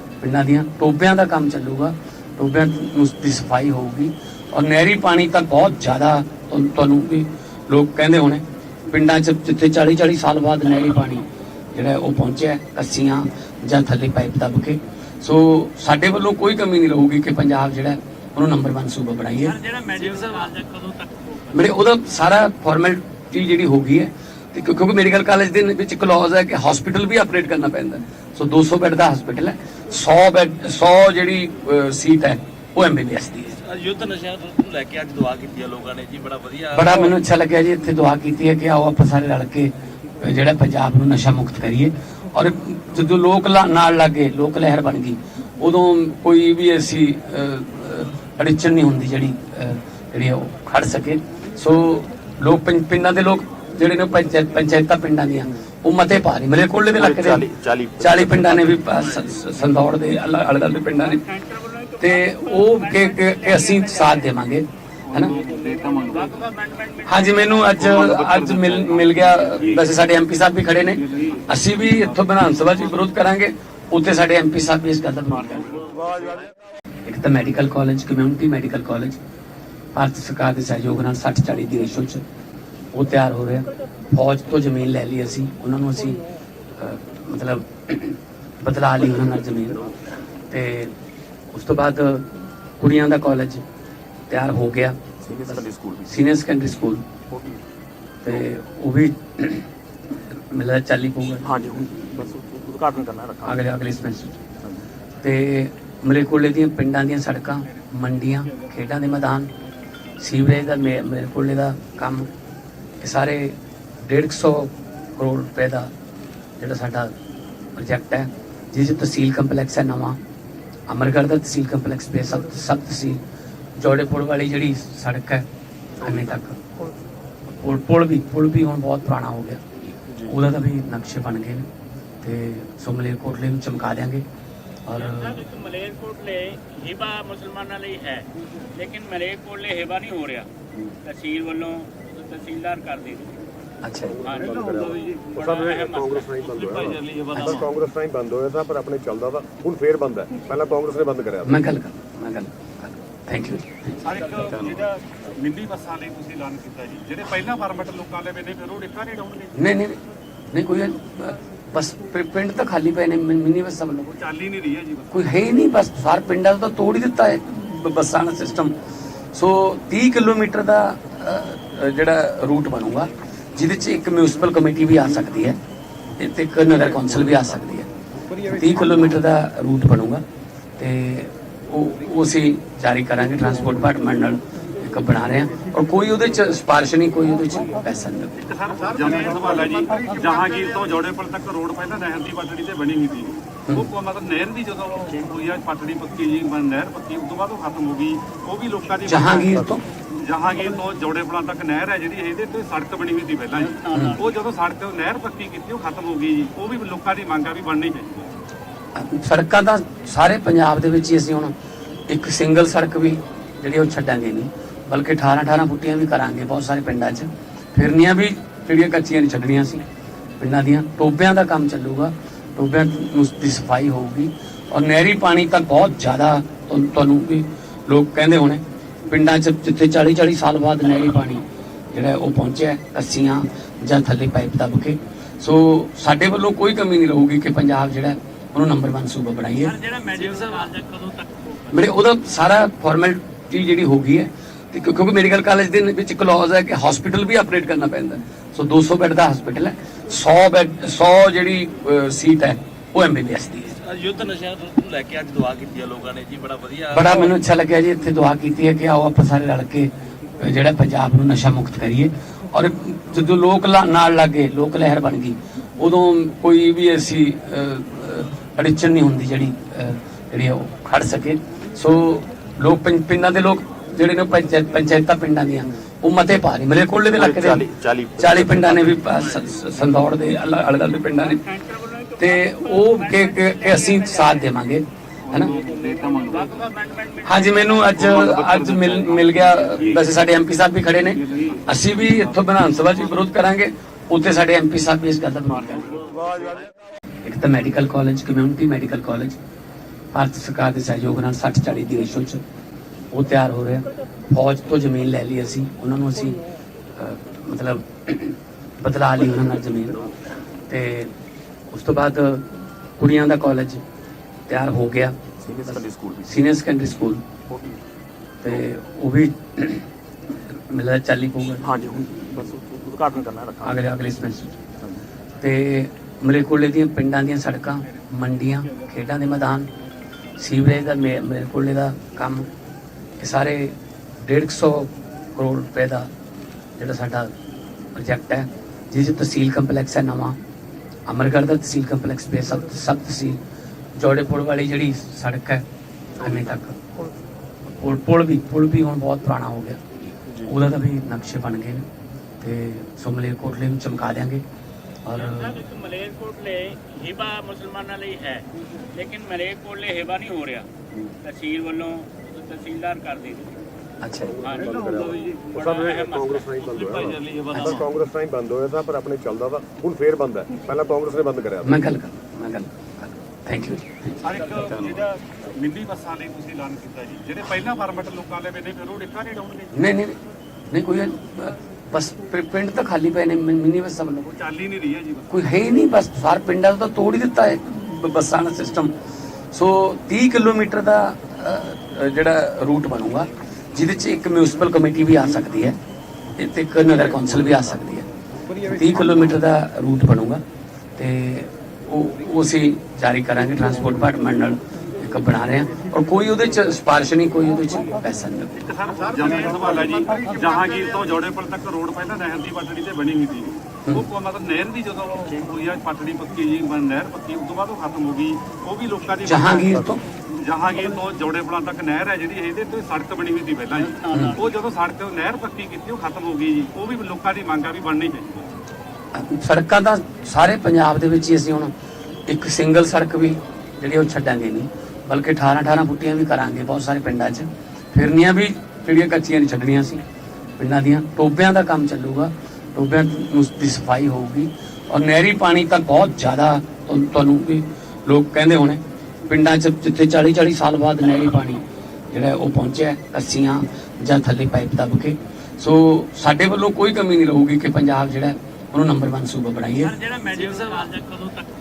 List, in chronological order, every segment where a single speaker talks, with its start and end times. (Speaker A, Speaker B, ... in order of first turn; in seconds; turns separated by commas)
Speaker A: 0.2-19.6, Speaker B: 19.6-21.4, Speaker C: 20.1-20.6, Speaker A: 21.5-33.6, Speaker D: 33.6-37.1, Speaker A: 36.7-61.2, Speaker E: 57.0-58.8, Speaker B: 61.1-64.4, Speaker A: 62.0-65.3, Speaker C: 65.1-66.4, Speaker B: 66.0-67.7, Speaker A: 67.0-75.8, Speaker C: 67.8-69.8, Speaker E: 68.0-68.8, Speaker C: 70.9-72.8, Speaker A: 77.0-79.2, Speaker A: 79.9-82.2, Speaker A: 82.9-86.2, Speaker A: 86.8-89.9, Speaker A: 90.5-90.9, Speaker A: 91.5-93.6, Speaker A: 94.3-97.0, Speaker E: 95.2-96.1, Speaker E: 97.3-97.6, Speaker A: 98.2-99.7, Speaker A: 100.2-101.5, Speaker E: 101.4-103.6, Speaker A: 103.4-104.4, Speaker A: 105.2-109.5, Speaker A: 110.2-112.3, Speaker A: 113.0-115.9, Speaker A: 116.6-117.1, Speaker A: 117.8-120.2, Speaker A: 120.9-123.2, Speaker A: 123.8-125.5, Speaker A: 126.0-126.6, Speaker E: 126.0-126.3, Speaker A: 127.6-129.6, Speaker A: 130.2-131.7, Speaker A: 132.2-134.2, Speaker A: 134.8-135.4, Speaker B: 134.9-140.5, Speaker B: 141.0-143.3, Speaker A: 143.8-144.2, Speaker F: 144.0-151.6, Speaker B: 144.2-146.5, Speaker C: 144.4-145.1, Speaker E: 146.8-147.6, Speaker A: 147.3-147.6, Speaker A: 151.4-154.0, Speaker C: 154.0-159.7, Speaker A: 159.5-160.0, Speaker A: 160.5-164.1, Speaker C: 164.1-165.2, Speaker A: 165.1-168.7, Speaker A: 169.3-175.6, Speaker A: 176.2-180.2, Speaker A: 180.8-188.3, Speaker C: 188.4-208.3, Speaker A: 199.0-199.8, Speaker B: 203.6-204.3, Speaker A: 203.9-204.2, Speaker A: 208.9-211.5, Speaker A: 212.1-219.8, Speaker A: 220.4-239.8, Speaker B: 239.9-241.0, Speaker C: 240.2-241.1, Speaker A: 241.7-253.8, Speaker D: 253.8-257.3, Speaker A: 256.9-281.4, Speaker E: 277.1-279.1, Speaker B: 281.2-284.6, Speaker A: 282.2-285.5, Speaker C: 285.3-286.6, Speaker B: 286.2-287.9, Speaker A: 287.2-296.1, Speaker C: 287.9-290.1, Speaker C: 291.1-292.5, Speaker A: 297.2-299.4, Speaker A: 300.1-302.4, Speaker A: 303.1-306.4, Speaker A: 306.9-310.1, Speaker A: 310.7-311.1, Speaker A: 311.7-313.8, Speaker A: 314.5-317.2, Speaker E: 315.4-316.3, Speaker E: 317.5-317.8, Speaker A: 318.4-319.9, Speaker A: 320.4-321.7, Speaker E: 321.6-323.8, Speaker A: 323.6-324.6, Speaker A: 325.4-329.7, Speaker A: 330.4-332.5, Speaker A: 333.2-336.1, Speaker A: 336.8-337.3, Speaker A: 337.9-340.4, Speaker A: 341.1-343.4, Speaker A: 343.9-345.6, Speaker A: 346.2-346.8, Speaker E: 346.2-346.5, Speaker A: 347.8-349.8, Speaker A: 350.4-351.9, Speaker A: 352.4-354.4, Speaker A: 355.1-355.6, Speaker B: 355.1-360.7, Speaker B: 361.2-363.5, Speaker A: 364.0-364.4, Speaker F: 364.2-371.8, Speaker B: 364.4-367.1, Speaker C: 364.8-365.3, Speaker C: 367.1-367.6, Speaker E: 367.1-367.7, Speaker A: 367.5-367.9, Speaker A: 371.6-374.2, Speaker C: 374.2-379.9, Speaker A: 379.7-384.3, Speaker C: 384.2-385.4, Speaker A: 385.3-388.9, Speaker A: 389.5-395.8, Speaker A: 396.4-398.1, Speaker A: 398.6-400.4, Speaker A: 401.0-408.6, Speaker C: 408.6-428.5, Speaker A: 419.2-420.0, Speaker B: 423.7-424.5, Speaker A: 424.1-424.4, Speaker A: 429.1-431.7, Speaker A: 432.3-440.0, Speaker A: 440.6-459.9, Speaker B: 460.0-460.9, Speaker C: 460.3-460.8